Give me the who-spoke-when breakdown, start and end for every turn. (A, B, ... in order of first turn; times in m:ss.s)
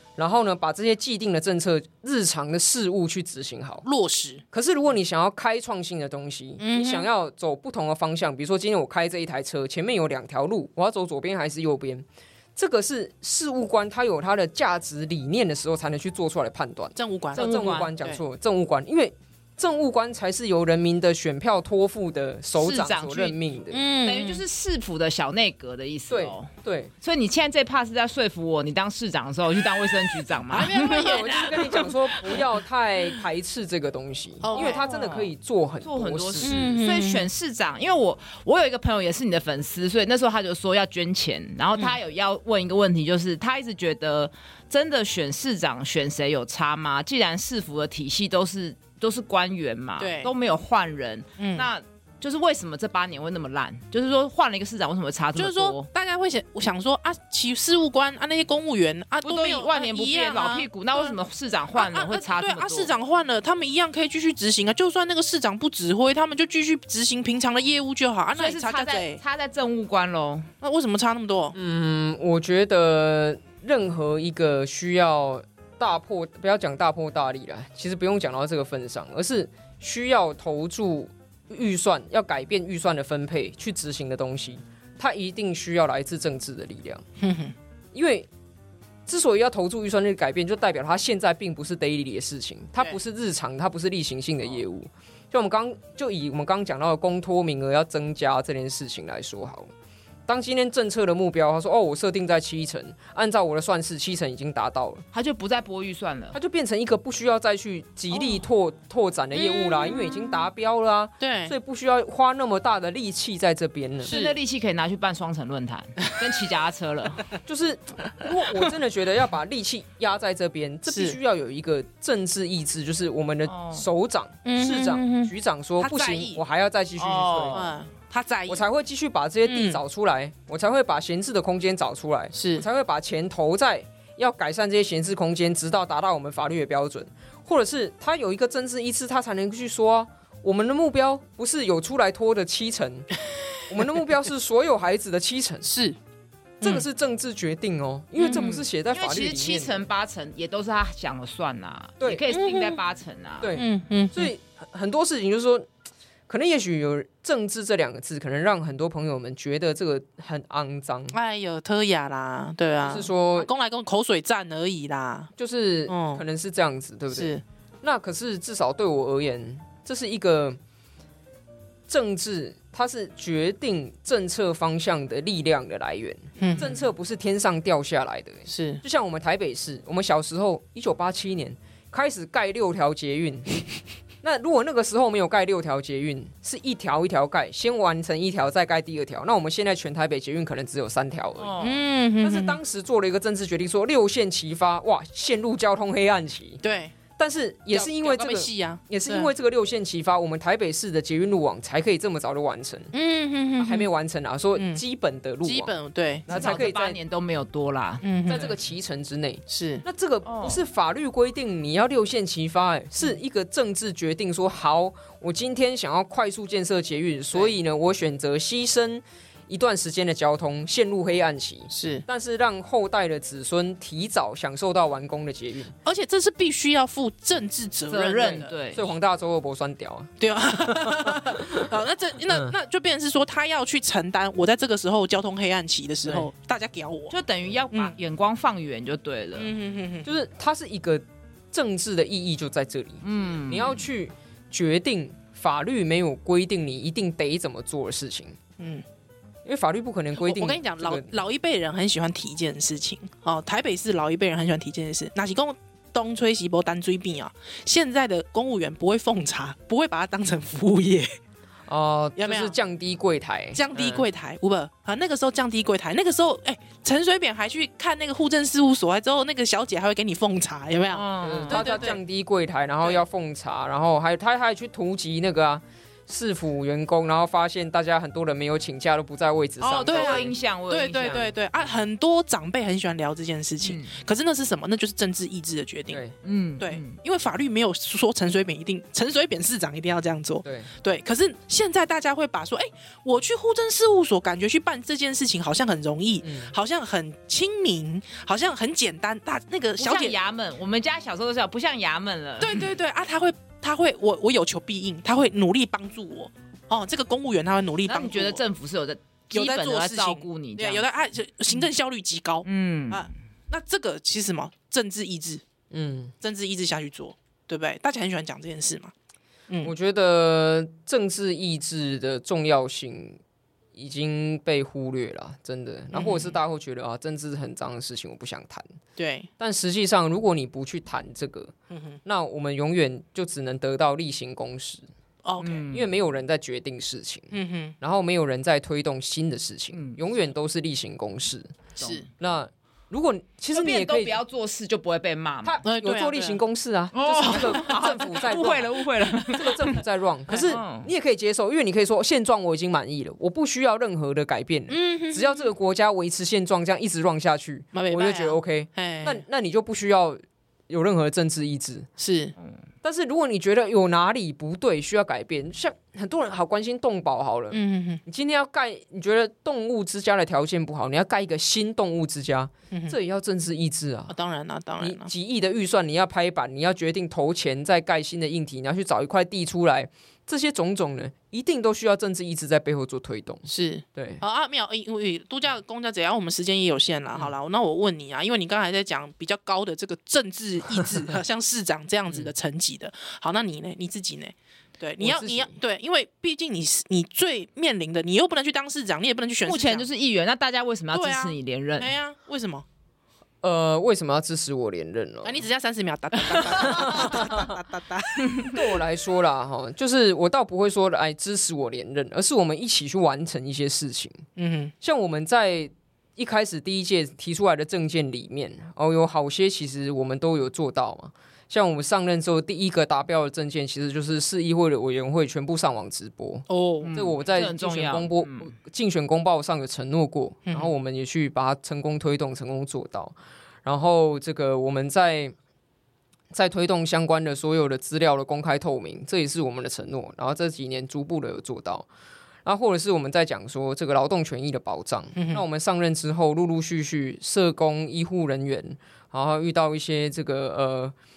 0:00.2-0:03.9 A
0:03.9-0:04.4 B
0:04.5-0:23.8 A
0:06.6-0:07.1 B
0:17.0-0:18.2 B
0:17.3-0:17.9 C
0:22.6-0:23.4 C
0:23.7-0:24.4 B
0:24.0-0:32.2 C
0:26.1-0:26.9 A
0:30.5-0:36.7 A
0:30.5-0:31.9 B
0:34.4-0:35.2 B
0:34.5-0:35.2 C
0:35.8-0:55.9 C
0:36.4-0:37.3 B
0:50.0-0:50.3 B
0:51.4-0:51.7 B
0:55.4-1:01.2 B
0:59.2-1:02.9 C
1:01.7-1:09.2 B
1:08.3-1:10.5 C
1:10.6-1:11.6 B
1:11.5-1:27.0 A
1:27.2-1:27.6 B
1:27.9-1:28.3 A
1:29.0-1:39.7 A
1:40.3-1:45.0 A
1:45.1-1:46.4 C
1:46.3-1:54.1 A
1:49.4-1:50.3 B
1:51.2-1:51.6 B
1:54.0-1:57.3 C
1:54.1-1:54.4 B
1:57.4-2:07.6 A
2:00.9-2:01.2 B
2:03.5-2:03.8 C
2:04.4-2:06.4 B
2:07.0-2:07.7 C
2:07.5-2:08.6 B
2:08.5-2:23.1 A
2:09.4-2:09.8 B
2:12.3-2:12.6 B
2:23.6-2:25.7 A
2:25.7-2:26.0 B
2:26.6-2:29.8 A
2:28.2-2:33.5 C
2:32.0-2:32.3 A
2:32.3-2:32.8 B
2:33.4-2:35.7 A
2:33.6-2:34.3 B
2:36.3-2:41.1 A
2:41.1-2:45.3 B
2:42.8-2:43.5 A
2:45.4-2:50.6 A
2:45.9-2:46.2 B
2:47.1-2:47.4 B
2:51.9-3:03.7 A
2:56.4-2:56.7 B
2:58.5-2:58.8 B
3:04.2-3:11.6 A
3:11.4-3:11.8 C
3:11.6-3:12.6 B
3:12.2-3:16.6 A
3:16.6-3:17.0 B
3:17.1-3:22.9 A
3:17.7-3:19.3 B
3:22.9-3:23.9 B
3:23.6-3:25.7 A
3:24.5-3:24.8 B
3:25.4-3:26.3 B
3:26.3-3:27.0 A
3:26.3-3:28.0 C
3:28.0-3:28.6 B
3:28.2-3:45.7 A
3:29.5-3:29.8 B
3:30.2-3:30.6 C
3:41.7-3:42.0 B
3:45.8-3:48.6 B
3:47.9-3:48.8 C
3:48.2-3:50.1 A
3:50.2-3:57.1 B
3:50.7-3:51.7 A
3:57.1-3:59.5 C
3:59.3-4:00.1 B
4:00.0-4:08.4 A
4:03.0-4:03.9 C
4:08.6-4:08.8 B
4:09.4-4:11.2 A
4:10.2-4:21.1 B
4:21.7-4:24.0 A
4:22.2-4:22.6 B
4:23.5-4:32.0 B
4:30.9-4:31.7 C
4:31.2-4:40.3 A
4:39.6-4:41.3 C
4:39.9-4:46.0 B
4:41.0-4:41.7 A
4:43.6-4:44.0 C
4:45.9-4:46.1 A
4:46.2-4:47.0 C
4:46.6-5:00.2 B
4:50.4-4:50.7 A
4:56.2-4:56.5 A
4:59.8-5:02.6 C
5:02.4-5:08.4 B
5:07.9-5:10.9 C
5:09.3-5:15.4 B
5:12.4-5:13.1 C
5:15.7-5:16.1 A
5:16.2-5:18.9 B
5:19.6-5:23.2 A
5:23.7-5:28.7 A
5:25.9-5:26.3 B
5:29.0-5:29.3 B
5:29.4-5:34.8 A
5:31.7-5:32.0 B
5:35.2-5:35.7 B
5:35.4-5:35.8 C
5:35.7-5:44.2 A
5:37.3-5:37.8 B
5:39.7-5:40.0 C
5:41.8-5:42.1 B
5:43.5-5:45.6 C
5:45.4-6:01.9 A
5:45.6-5:46.4 B
5:46.9-5:49.8 C
5:47.5-5:48.1 B
5:50.3-5:50.5 B
5:50.4-5:50.9 C
5:54.7-5:55.5 B
5:57.7-5:59.2 B
6:02.0-6:02.3 B
6:02.8-6:14.1 A
6:07.5-6:08.0 B
6:14.1-6:15.1 B
6:14.8-6:24.2 A
6:23.5-6:39.9 B
6:35.0-6:35.5 A
6:39.4-6:41.9 C
6:40.9-6:42.6 B
6:43.4-6:45.4 A
6:45.2-6:48.7 B
6:46.6-6:47.6 A
6:46.7-6:47.1 C
6:48.5-6:54.2 A
6:54.4-6:54.7 B
6:54.8-7:15.3 A
7:06.5-7:06.9 B
7:06.8-7:08.5 C
7:10.5-7:10.7 B
7:16.3-7:21.9 A
7:22.4-7:31.0 A
7:25.1-7:25.4 B